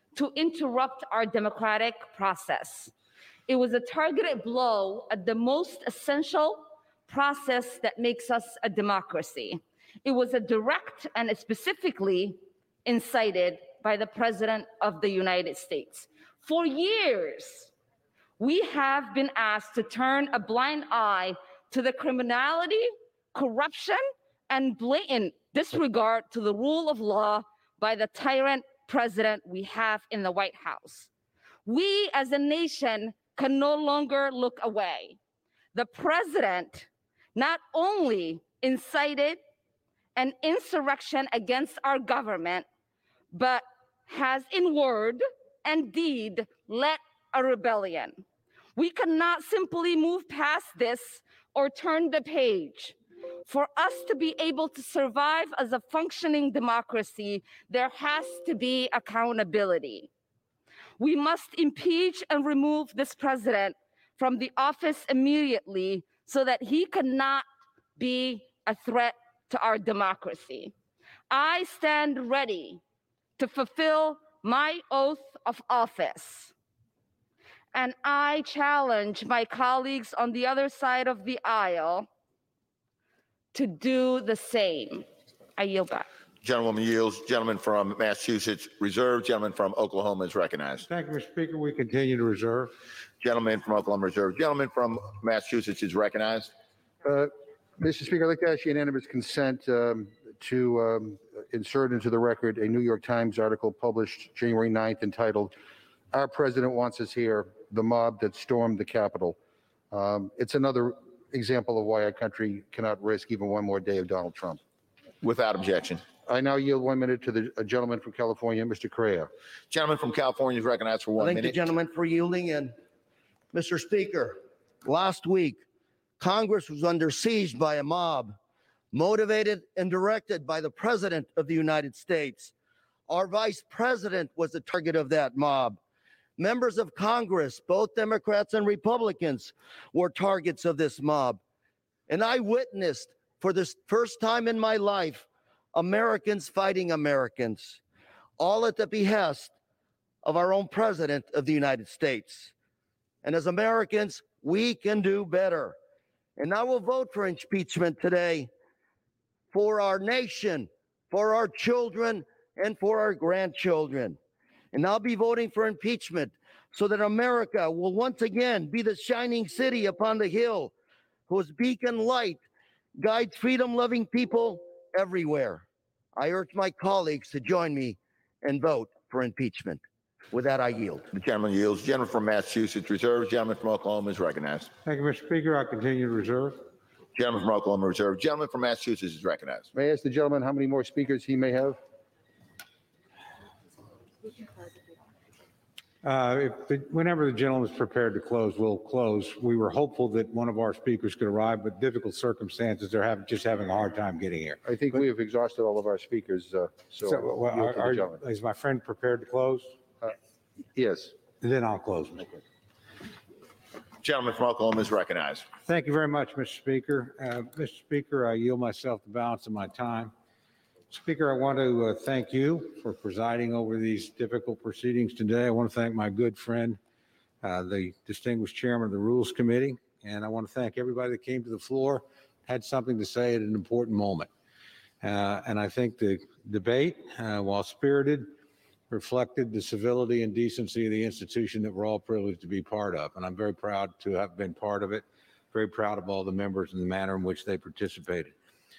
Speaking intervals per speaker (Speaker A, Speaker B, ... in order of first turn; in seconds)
Speaker A: 0.1-2.9, 3.5-17.7, 18.4-31.1, 31.6-35.2, 35.7-39.4, 40.1-42.6, 43.3-48.2, 48.8-52.9, 53.5-60.1, 61.0-67.4, 68.0-70.7, 71.3-72.8, 73.4-76.5, 77.7-82.1, 83.5-85.0, 85.6-86.0
Speaker B: 86.4-90.8, 93.2-96.5, 115.2-116.0, 119.7-121.6, 181.1-184.7, 187.1-189.7, 214.0-215.5
Speaker C: 90.8-92.7, 184.8-186.6, 196.0-205.0, 207.0-209.8, 211.4-212.4, 215.7-220.1, 220.9-226.8, 227.4-234.3, 235.0-238.3, 238.9-248.3
Speaker D: 97.0-105.5, 106.1-109.3, 109.9-114.6, 116.3-119.3, 189.7-191.8, 204.6-208.2, 210.7-211.1
Speaker E: 121.2-122.8, 123.5-125.6, 126.2-128.3, 128.9-132.5, 133.1-135.8, 136.4-141.4, 142.1-147.8, 148.4-149.5, 150.2-152.5, 153.2-155.8, 156.4-158.5, 159.5-164.2, 164.7-170.7, 171.3-172.4, 172.9-175.6, 176.2-179.8, 180.3-181.1